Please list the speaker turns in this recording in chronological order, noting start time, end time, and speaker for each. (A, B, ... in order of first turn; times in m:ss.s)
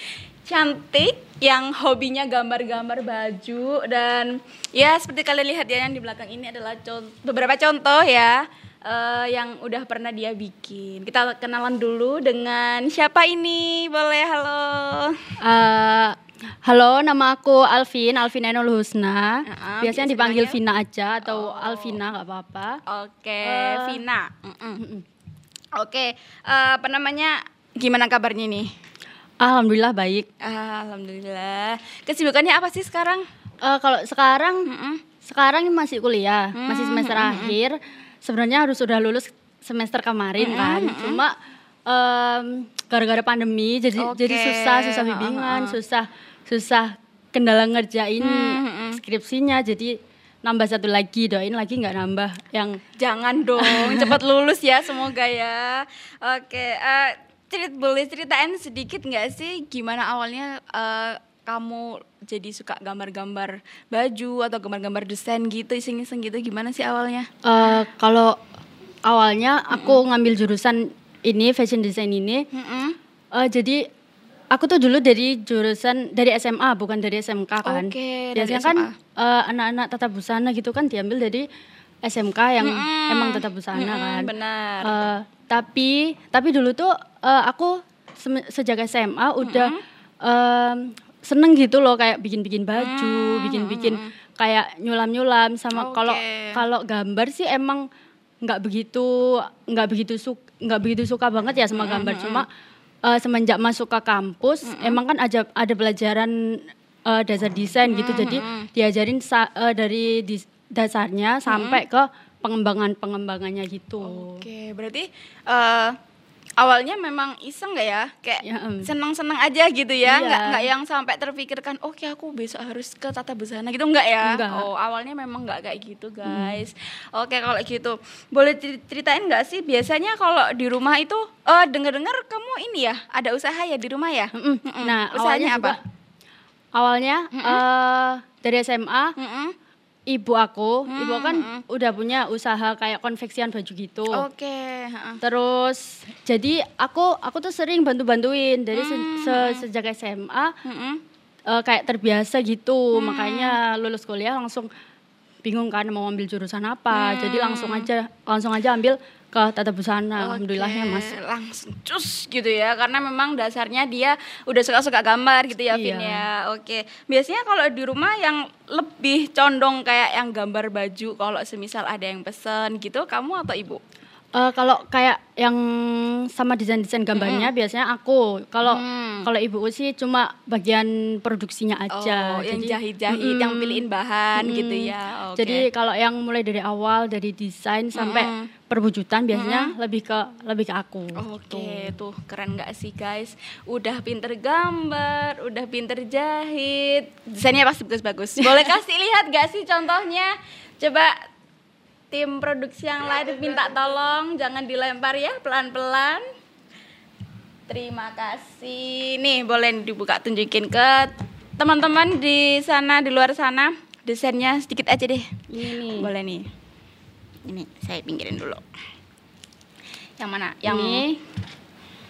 0:00.4-0:15.3 A
0:15.4-0:22.8 B
0:19.4-0:20.6 A
0:21.2-0:22.0 A
0:22.8-0:24.8 A
0:23.4-0:24.0 B
0:24.8-0:25.0 B
0:25.7-0:28.7 A
0:29.4-0:30.3 B
0:30.4-0:33.3 A
0:33.6-0:34.7 B
0:34.7-0:35.0 A
0:35.2-0:41.3 B
0:36.6-0:37.6 A
0:40.4-0:41.2 A
0:41.9-0:52.8 B
0:44.0-0:45.8 A
0:48.2-0:49.0 A
0:53.0-1:07.3 A
0:53.6-0:54.2 B
1:07.4-1:08.4 B
1:09.1-1:12.4 B
1:09.7-1:10.0 A
1:12.5-1:13.0 A
1:13.3-1:13.8 B
1:14.5-1:21.4 B
1:17.6-1:18.9 A
1:22.0-1:24.3 B
1:22.6-1:25.0 A
1:24.8-1:29.7 B
1:29.4-1:29.8 A
1:30.2-1:37.8 B
1:32.8-1:34.1 A
1:35.7-1:36.6 A
1:38.4-1:42.4 B
1:41.7-1:42.4 A
1:43.1-1:54.4 B
1:44.6-1:45.0 A
1:47.8-1:48.7 A
1:51.5-1:51.8 A
1:54.0-1:56.0 A
1:56.6-2:15.8 A
1:58.4-1:58.9 B
2:00.0-2:00.7 B
2:04.2-2:04.7 B
2:06.2-2:06.6 B
2:14.3-2:15.8 B
2:16.8-2:19.1 B
2:17.3-2:17.6 A
2:19.2-2:19.6 A
2:20.1-2:24.2 B
2:20.9-2:21.6 A
2:24.2-2:25.2 A
2:25.2-2:30.5 B
2:28.7-2:29.6 A
2:30.6-2:31.0 A
2:31.5-2:34.7 B
2:32.9-2:33.6 A
2:35.4-2:41.2 B
2:36.9-2:37.9 A
2:40.2-2:53.8 A
2:45.7-2:46.2 B
2:54.4-3:03.8 B
2:57.1-2:57.5 A
2:58.6-2:59.3 A
3:01.9-3:05.6 A
3:04.4-3:11.9 B
3:07.9-3:08.5 A
3:09.3-3:09.7 A
3:11.2-3:21.1 A
3:22.1-3:26.2 A
3:27.7-3:35.3 A
3:35.5-3:36.1 B
3:36.0-3:36.5 A
3:37.4-3:38.6 A
3:40.2-3:41.0 A
3:40.6-3:41.1 B